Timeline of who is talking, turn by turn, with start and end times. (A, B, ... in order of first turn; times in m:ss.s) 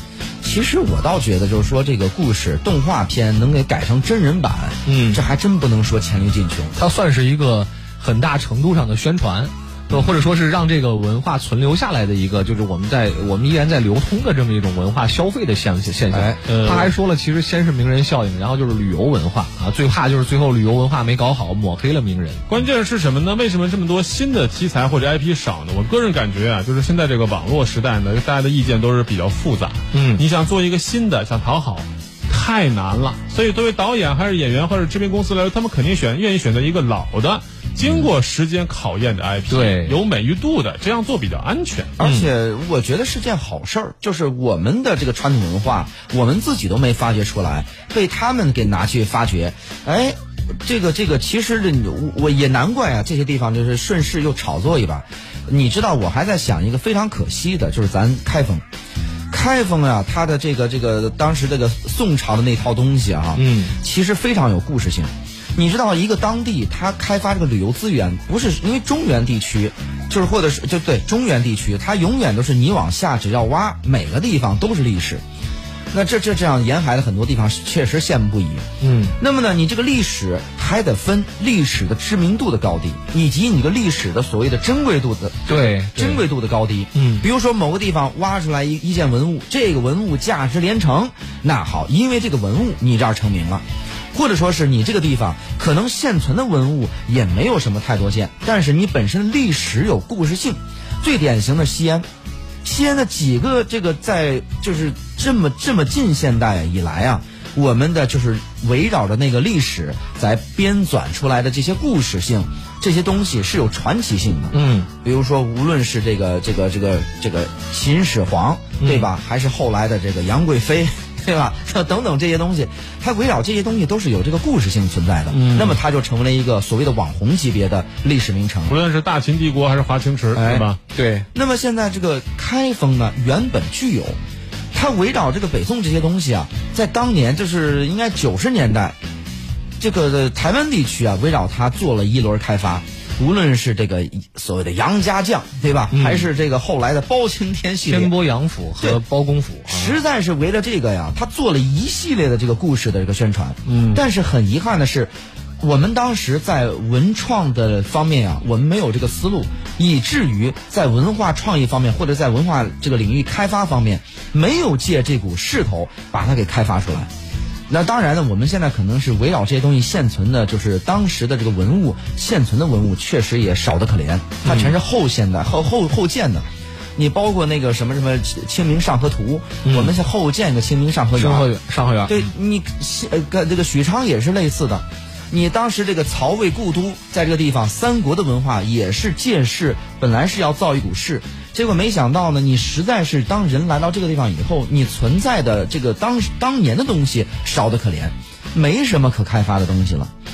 0:00.4-0:06.8 A
0:04.9-0:05.2 B
0:06.8-0:22.4 B
0:16.1-0:16.4 A
0:16.5-0:16.9 C
0:22.5-0:42.0 C
0:29.9-0:30.2 B
0:39.5-0:40.0 B
0:42.0-0:58.6 A
0:42.0-0:42.3 B
0:59.3-1:15.2 A
1:03.4-1:03.8 B
1:15.9-1:18.6 A
1:18.8-1:19.1 B
1:19.2-1:33.6 A
1:25.5-1:26.2 B
1:26.9-1:27.2 B
1:34.1-1:42.0 A
1:42.6-2:08.8 A
1:54.5-1:54.9 B
1:58.8-1:59.1 B
2:05.3-2:05.8 C
2:08.7-2:10.8 C
2:10.3-2:10.8 A
2:10.9-2:11.3 B
2:11.3-2:14.2 A
2:14.7-2:19.0 A
2:19.8-2:28.1 A
2:25.9-2:26.3 B
2:27.8-2:30.0 B
2:29.6-2:47.1 A
2:33.7-2:34.0 C
2:47.7-2:56.4 A
2:54.4-2:54.8 B
2:57.0-3:01.5 A
2:59.6-2:59.9 B
3:01.1-3:02.3 B
3:02.1-3:20.1 A